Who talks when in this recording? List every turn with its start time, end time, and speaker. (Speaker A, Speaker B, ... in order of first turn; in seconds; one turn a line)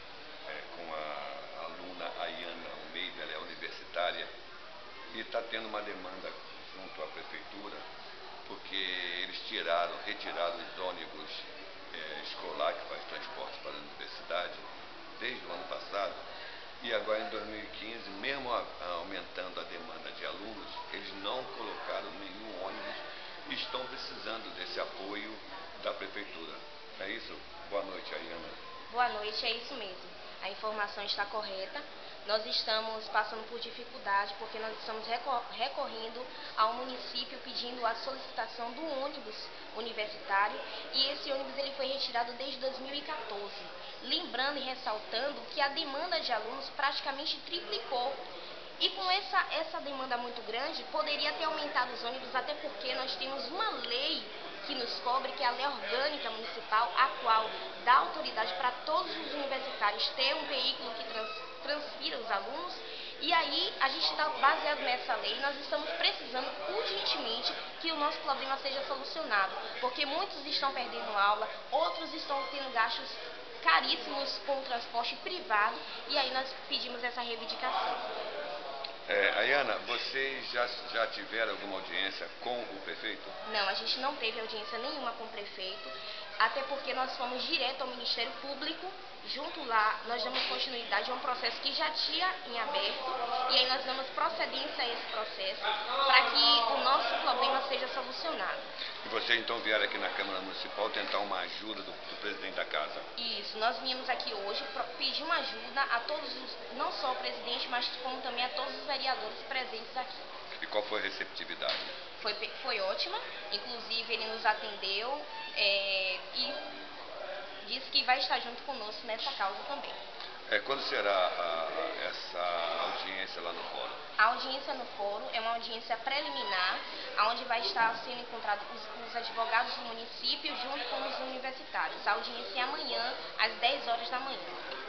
Speaker A: 0.5-4.3
Speaker A: 5.1-7.8
Speaker A: 8.5-14.7
Speaker A: 15.2-16.2
Speaker A: 16.8-28.6
Speaker B: 28.9-48.2
Speaker B: 48.8-78.0
Speaker A: 79.1-83.3
Speaker B: 83.5-98.7
Speaker A: 99.0-103.1
Speaker B: 103.2-110.2
Speaker A: 110.6-111.9
Speaker B: 112.2-116.6
Speaker B: 117.6-120.0
Speaker A: 120.5-124.0
Speaker B: 124.2-134.6